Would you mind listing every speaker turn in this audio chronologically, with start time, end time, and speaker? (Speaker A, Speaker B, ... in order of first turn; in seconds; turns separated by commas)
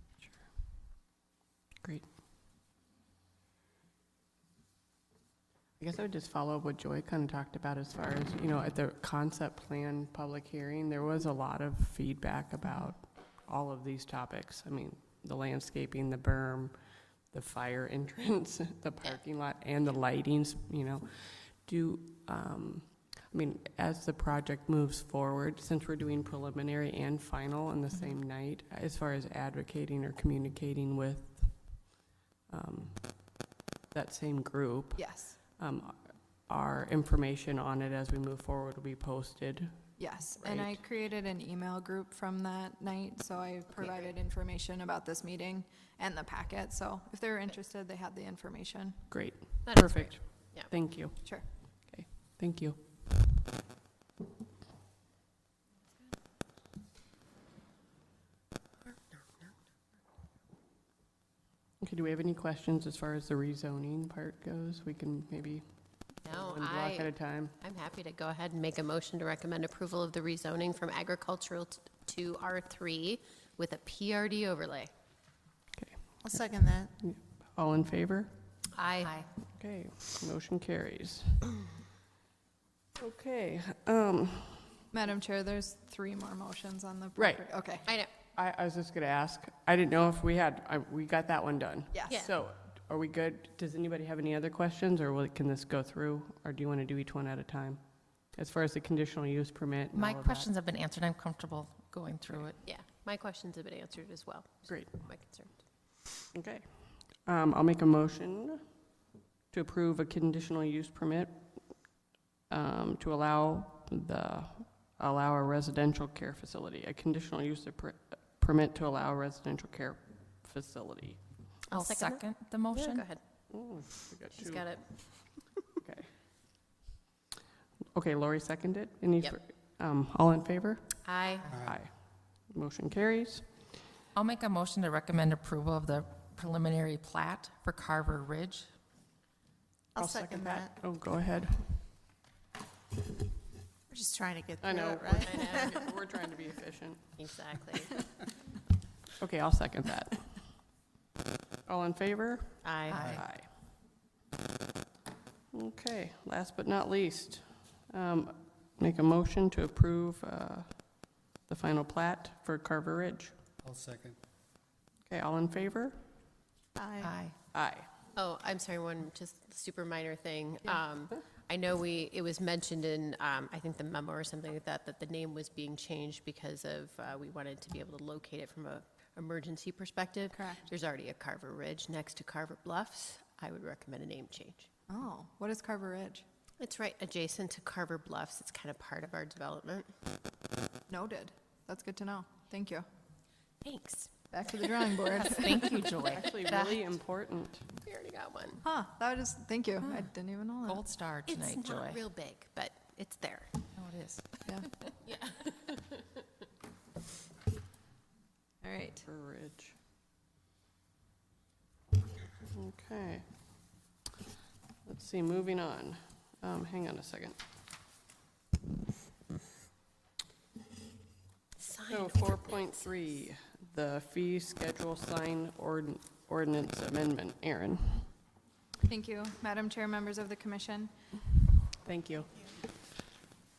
Speaker A: 0.2-0.5, Speaker A: 5.8-31.9, Speaker A: 32.5-40.8, Speaker B: 35.0-35.4, Speaker B: 40.0-49.0, Speaker C: 43.8-44.1, Speaker A: 49.1-52.9, Speaker C: 49.6-50.7, Speaker C: 58.9-59.6, Speaker A: 61.8-67.6, Speaker C: 66.2-74.9, Speaker A: 75.8-76.3, Speaker D: 76.2-76.9, Speaker A: 77.0-78.5, Speaker C: 78.7-79.2, Speaker E: 79.0-79.3, Speaker A: 79.4-81.5, Speaker A: 83.0-84.8, Speaker B: 84.9-87.9, Speaker A: 87.2-87.7, Speaker C: 87.8-88.1, Speaker A: 88.3-100.5, Speaker B: 91.9-92.2, Speaker C: 92.1-92.3, Speaker E: 99.9-102.6, Speaker C: 102.6-105.6, Speaker A: 104.7-105.1, Speaker A: 106.3-108.8, Speaker A: 109.5-111.9, Speaker A: 112.5-121.5, Speaker E: 121.7-123.1, Speaker C: 121.7-123.2, Speaker A: 123.5-126.1, Speaker C: 124.3-125.6, Speaker A: 127.9-133.6, Speaker C: 131.1-131.6, Speaker E: 134.1-138.7, Speaker D: 139.9-140.8, Speaker A: 140.0-142.0, Speaker D: 143.9-145.9, Speaker A: 144.6-147.2, Speaker C: 145.2-145.8, Speaker C: 147.2-148.0, Speaker A: 149.2-150.7, Speaker A: 151.7-153.6, Speaker C: 152.6-153.1, Speaker E: 152.9-153.2, Speaker A: 155.5-163.3, Speaker A: 165.1-166.0, Speaker D: 166.8-167.2, Speaker E: 167.0-167.3, Speaker A: 167.5-167.9, Speaker C: 168.2-184.7, Speaker B: 180.3-180.7, Speaker B: 184.9-186.2, Speaker C: 186.6-190.0, Speaker B: 190.9-192.9, Speaker C: 193.6-195.1, Speaker B: 194.3-195.9, Speaker E: 195.2-196.9, Speaker C: 196.1-196.4, Speaker A: 196.1-197.7, Speaker C: 197.8-198.6, Speaker B: 198.6-200.9, Speaker E: 200.7-202.0, Speaker C: 201.3-203.6, Speaker E: 203.7-204.9, Speaker C: 205.1-205.9, Speaker B: 208.6-209.1, Speaker A: 209.1-209.8, Speaker A: 212.5-213.6, Speaker A: 214.8-217.4, Speaker C: 221.6-223.2, Speaker A: 221.9-228.1, Speaker B: 228.9-230.9, Speaker A: 231.8-232.3